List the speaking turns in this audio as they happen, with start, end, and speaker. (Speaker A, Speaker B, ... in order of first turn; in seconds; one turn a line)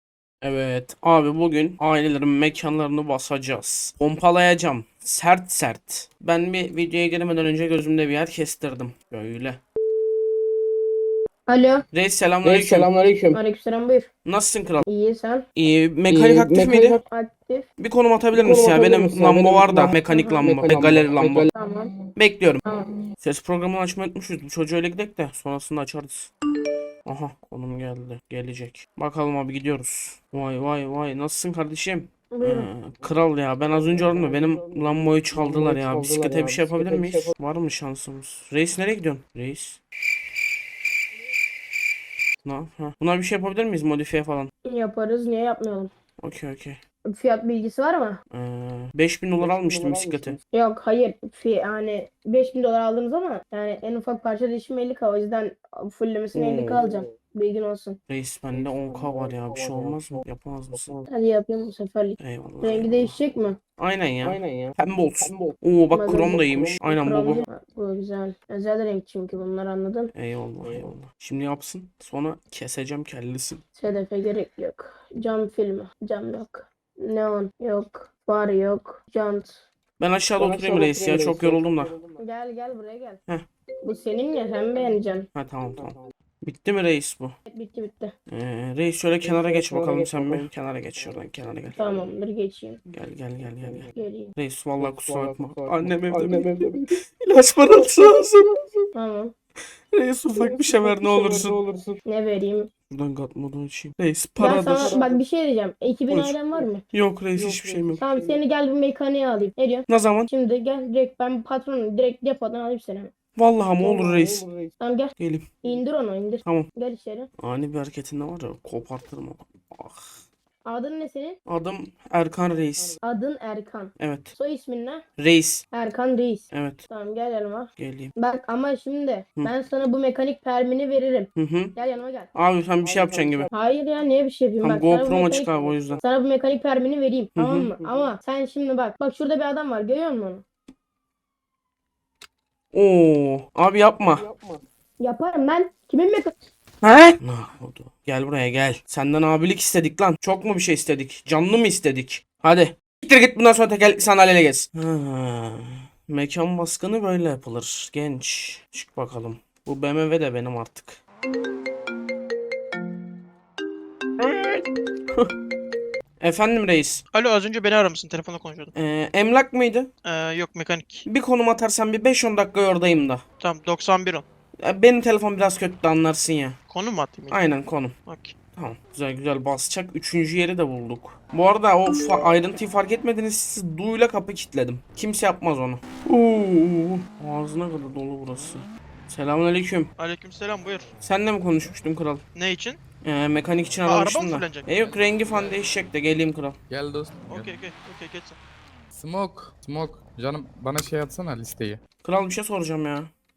Speaker A: 0.4-9.6
Speaker B: 11.5-11.8
Speaker A: 11.9-12.9
Speaker C: 12.4-13.4
Speaker B: 13.3-14.1
Speaker A: 14.2-14.9
Speaker B: 14.8-15.4
Speaker A: 15.5-17.0
Speaker C: 16.1-17.0
Speaker B: 17.0-17.7
Speaker A: 17.8-21.5
Speaker C: 18.3-21.5
Speaker B: 21.5-21.9
Speaker A: 22.1-22.6
Speaker A: 23.2-26.3
Speaker A: 27.0-39.8
Speaker B: 32.3-32.7
Speaker C: 33.0-37.3
Speaker A: 42.4-44.5
Speaker B: 44.6-45.9
Speaker A: 46.2-46.8
Speaker B: 47.1-48.2
Speaker A: 48.3-50.4
Speaker C: 49.3-50.4
Speaker B: 50.5-58.0
Speaker A: 56.3-56.8
Speaker C: 56.8-57.1
Speaker A: 58.1-61.0
Speaker C: 58.5-61.0
Speaker B: 61.1-63.6
Speaker A: 62.2-67.4
Speaker C: 64.2-65.6
Speaker B: 65.9-70.1
Speaker C: 66.1-67.4
Speaker A: 70.1-73.6
Speaker C: 70.6-70.9
Speaker B: 73.7-79.7
Speaker A: 80.0-81.9
Speaker C: 80.4-82.2
Speaker B: 82.2-83.2
Speaker B: 83.8-85.3
Speaker A: 85.3-87.4
Speaker C: 85.8-86.1
Speaker B: 87.5-88.1
Speaker A: 88.3-91.8
Speaker C: 89.2-92.1
Speaker B: 91.8-92.8
Speaker A: 92.9-98.9
Speaker C: 93.6-93.9
Speaker B: 94.0-94.3
Speaker C: 94.8-97.0
Speaker C: 97.7-98.2
Speaker B: 98.9-99.3
Speaker A: 99.9-101.6
Speaker C: 100.3-102.0
Speaker B: 102.0-102.7
Speaker A: 102.9-104.9
Speaker B: 104.4-106.8
Speaker C: 104.5-105.2
Speaker A: 106.1-106.3
Speaker A: 106.9-108.0
Speaker C: 107.3-108.4
Speaker B: 108.0-113.1
Speaker A: 109.9-110.3
Speaker A: 113.3-114.4
Speaker C: 113.8-114.8
Speaker B: 114.8-117.3
Speaker A: 115.2-115.5
Speaker A: 117.4-120.2
Speaker B: 120.6-121.4
Speaker A: 121.5-123.0
Speaker B: 123.0-125.0
Speaker A: 124.0-124.3
Speaker A: 125.2-125.6
Speaker B: 125.7-132.3
Speaker A: 126.5-126.8
Speaker A: 127.8-128.1
Speaker A: 131.3-131.8
Speaker A: 132.3-133.5
Speaker C: 132.8-133.5
Speaker B: 133.5-140.4
Speaker A: 134.6-136.0
Speaker C: 135.6-136.0
Speaker A: 137.3-137.7
Speaker C: 137.8-138.2
Speaker A: 142.7-144.2
Speaker C: 144.0-144.6
Speaker B: 145.0-146.3
Speaker A: 146.8-161.0
Speaker A: 164.2-165.3
Speaker A: 166.2-167.0
Speaker D: 167.1-168.7
Speaker A: 168.7-169.9
Speaker D: 170.0-171.1
Speaker A: 171.1-173.2
Speaker D: 173.4-174.2
Speaker A: 174.6-176.6
Speaker D: 176.7-177.5
Speaker A: 177.3-177.9
Speaker D: 178.0-178.3
Speaker A: 178.6-189.9
Speaker D: 190.0-190.9
Speaker A: 191.0-192.2
Speaker D: 192.3-192.8
Speaker A: 193.0-196.6
Speaker D: 193.8-194.7
Speaker E: 196.7-197.5
Speaker D: 197.3-198.4
Speaker E: 198.9-201.8
Speaker A: 202.0-203.1